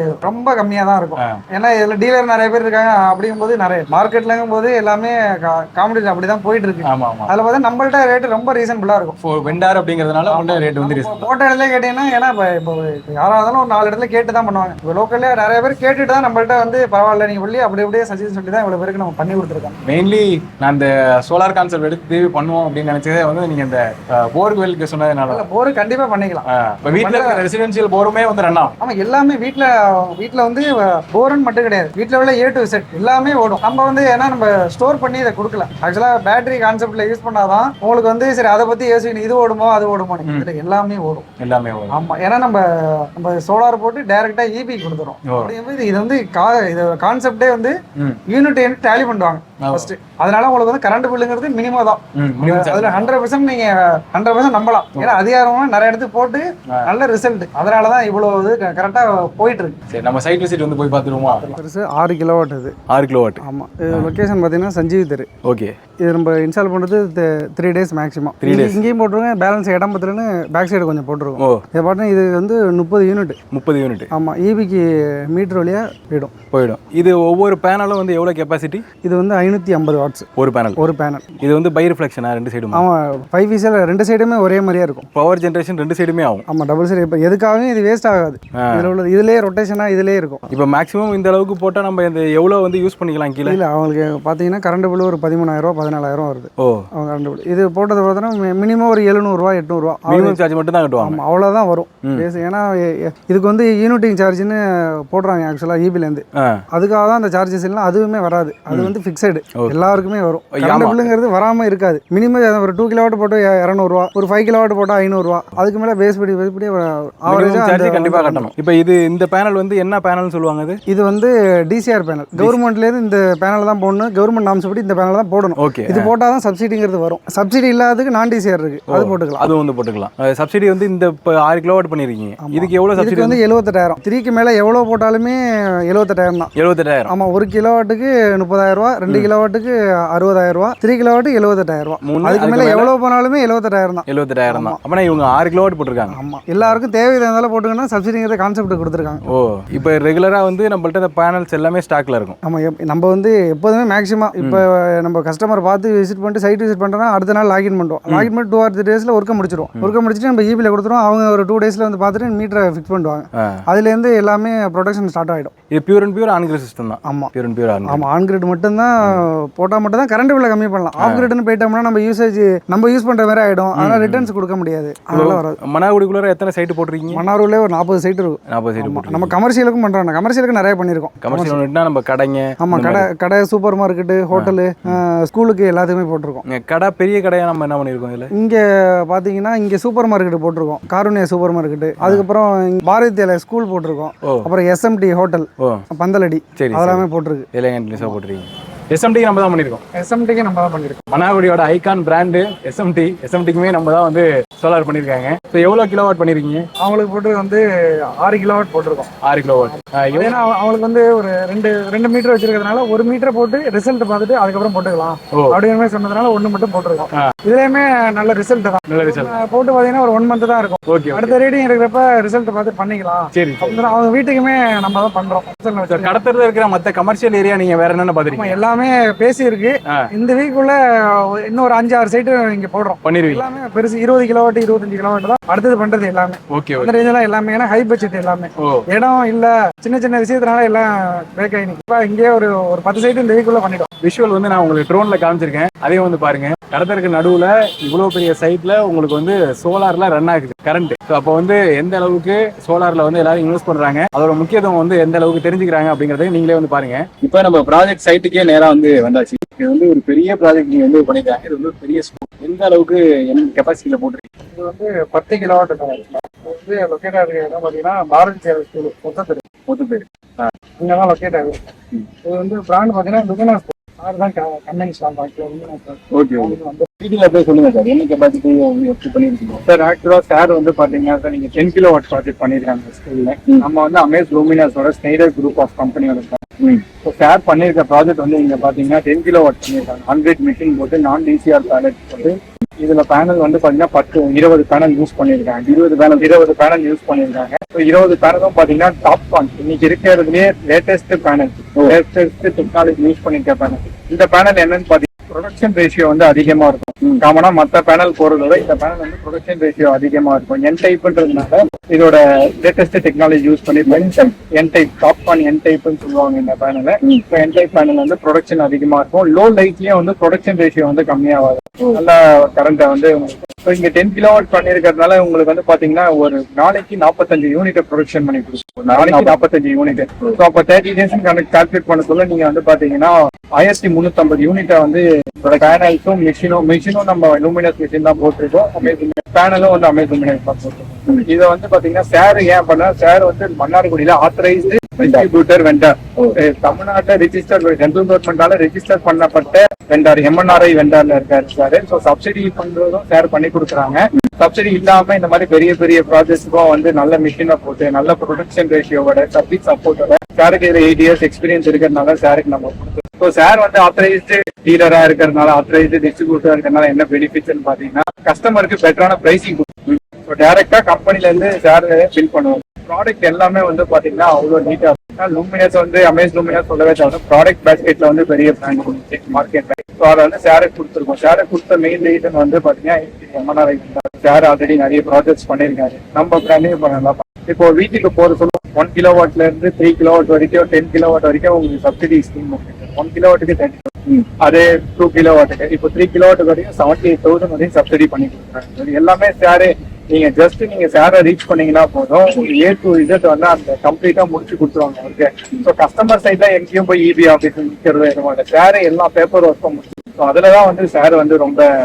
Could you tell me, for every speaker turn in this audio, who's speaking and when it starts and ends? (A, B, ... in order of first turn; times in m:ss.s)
0:00.2-0:09.2 A
0:06.8-0:07.3 B
0:09.2-0:11.3 B
0:10.3-0:19.8 A
0:19.8-0:25.4 B
0:25.3-0:26.5 A
0:26.5-0:28.8 B
0:27.0-0:27.4 A
0:28.8-0:41.3 A
0:41.4-0:42.0 B
0:41.9-0:47.8 A
0:45.3-0:45.5 B
0:48.3-0:59.8 A
0:49.6-0:49.9 B
0:52.2-0:53.1 B
0:59.9-1:01.5 B
1:01.4-1:02.8 A
1:02.9-1:04.1 B
1:03.4-1:05.3 A
1:05.4-1:05.7 B
1:06.0-1:13.4 A
1:08.4-1:08.8 B
1:13.5-1:14.1 B
1:14.1-1:16.3 A
1:16.5-1:18.8 B
1:19.0-1:21.4 A
1:20.4-1:20.8 B
1:21.4-1:22.8 B
1:22.7-1:25.1 A
1:25.1-1:26.4 B
1:26.5-1:30.4 A
1:28.6-1:28.9 B
1:30.5-1:33.6 B
1:33.4-1:40.4 A
1:36.6-1:36.9 B
1:40.1-1:41.2 B
1:41.0-1:58.5 A
1:46.4-1:46.6 B
1:50.5-1:51.1 B
1:57.3-2:00.8 B
2:00.9-2:09.5 A
2:05.6-2:06.1 B
2:08.9-2:13.4 B
2:12.4-2:16.5 A
2:16.6-2:17.1 B
2:17.1-2:24.8 A
2:22.0-2:22.9 B
2:24.1-2:26.8 B
2:26.1-2:29.2 A
2:29.3-2:32.4 B
2:32.4-2:45.5 A
2:45.7-2:48.0 B
2:47.0-2:47.3 A
2:47.9-2:55.6 A
2:51.0-2:51.3 B
2:53.8-2:54.3 B
2:55.1-2:57.2 B
2:57.1-3:01.6 A
2:58.5-2:59.4 B
3:01.2-3:03.1 B
3:02.6-3:06.4 A
3:04.3-3:05.0 B
3:06.5-3:08.3 B
3:08.4-3:18.2 A
3:14.2-3:14.5 B
3:16.6-3:19.8 B
3:20.0-3:21.1 A
3:21.1-3:26.7 B
3:26.8-3:29.1 A
3:29.2-3:30.4 B
3:29.6-3:46.2 A
3:35.3-3:35.6 B
3:38.9-3:39.4 B
3:40.9-3:41.4 B
3:43.3-3:44.0 B
3:45.9-3:48.6 B
3:48.3-4:03.9 A
3:53.0-3:53.5 B
3:56.5-3:57.0 B
3:58.6-3:58.8 B
4:04.0-4:24.2 B
4:24.5-4:29.4 A
4:29.7-4:30.5 B
4:30.8-4:31.6 A
4:32.2-4:36.9 A
4:36.1-4:39.6 B
4:39.7-6:51.7 C
4:55.8-4:56.1 B
5:28.8-5:29.4 B